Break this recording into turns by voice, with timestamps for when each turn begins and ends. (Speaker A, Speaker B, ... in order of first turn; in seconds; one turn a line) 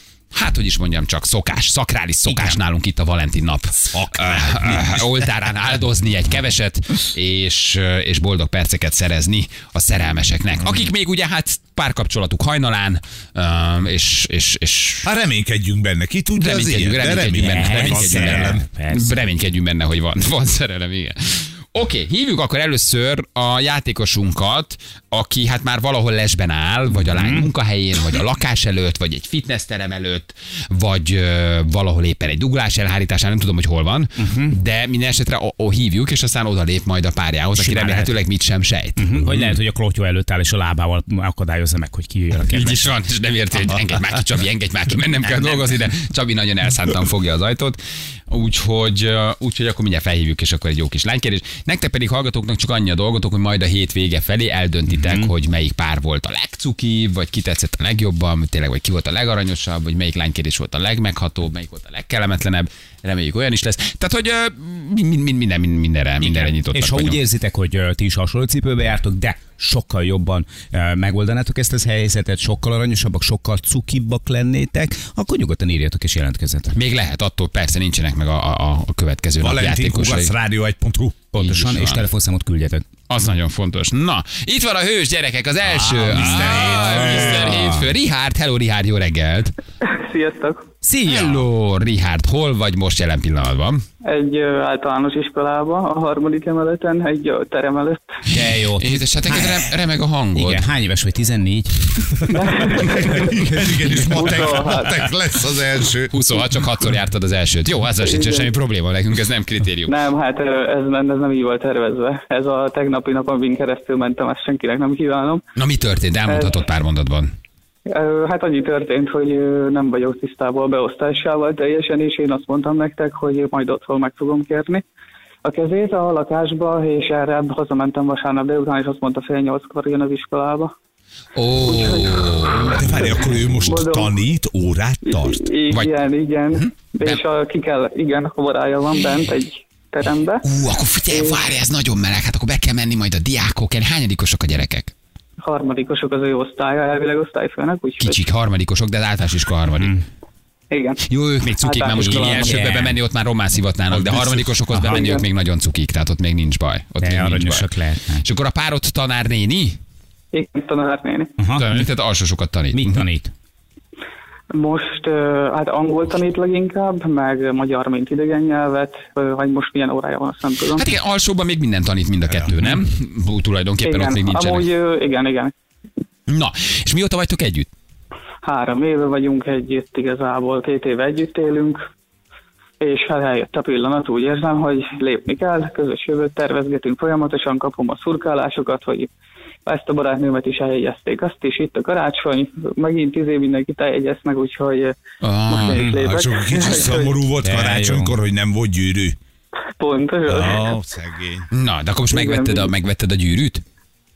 Speaker A: 0.3-15.1
Speaker B: 2.3-2.6
Speaker C: 3.9-5.1
Speaker C: 15.1-18.7
Speaker A: 16.4-39.4
Speaker B: 17.4-19.2
Speaker B: 26.9-27.5
Speaker B: 34.2-34.6
Speaker B: 37.6-38.1
Speaker B: 39.0-42.9
Speaker A: 42.4-67.2
Speaker B: 54.9-55.3
Speaker B: 66.2-76.8
Speaker A: 76.7-80.3
Speaker C: 79.4-81.2
Speaker B: 81.3-82.8
Speaker A: 81.3-82.1
Speaker A: 83.1-89.5
Speaker B: 85.7-87.9
Speaker C: 86.0-87.5
Speaker D: 89.8-90.6
Speaker B: 90.8-91.5
Speaker A: 91.1-93.8
Speaker D: 94.0-98.1
Speaker B: 98.3-99.7
Speaker A: 98.3-100.7
Speaker B: 100.3-102.4
Speaker D: 102.3-103.3
Speaker C: 102.8-106.1
Speaker D: 104.0-105.0
Speaker A: 106.1-110.0
Speaker D: 108.0-108.5
Speaker D: 109.9-115.4
Speaker A: 115.6-117.3
Speaker D: 116.3-116.6
Speaker D: 117.9-124.8
Speaker D: 125.4-130.7
Speaker A: 131.3-133.6
Speaker D: 131.6-134.2
Speaker C: 132.7-135.4
Speaker D: 135.2-140.4
Speaker A: 136.5-137.2
Speaker A: 140.4-144.9
Speaker D: 141.1-141.4
Speaker D: 145.4-148.3
Speaker A: 148.0-149.9
Speaker B: 149.8-150.0
Speaker D: 150.7-152.7
Speaker A: 151.0-159.8
Speaker B: 151.8-153.0
Speaker B: 154.7-155.1
Speaker D: 154.8-155.2
Speaker B: 157.0-158.2
Speaker D: 160.3-161.3
Speaker B: 161.4-161.8
Speaker A: 161.6-163.1
Speaker B: 162.7-163.3
Speaker D: 164.5-170.9
Speaker A: 170.7-174.7
Speaker D: 173.8-175.5
Speaker A: 176.3-177.7
Speaker D: 178.4-181.8
Speaker D: 182.8-189.1
Speaker D: 189.7-195.0
Speaker A: 195.2-195.9
Speaker D: 195.5-197.2
Speaker B: 195.7-196.0
Speaker C: 195.9-199.2
Speaker B: 197.4-198.2
Speaker D: 199.8-200.7
Speaker C: 200.3-201.5
Speaker A: 201.5-203.6
Speaker D: 202.1-202.7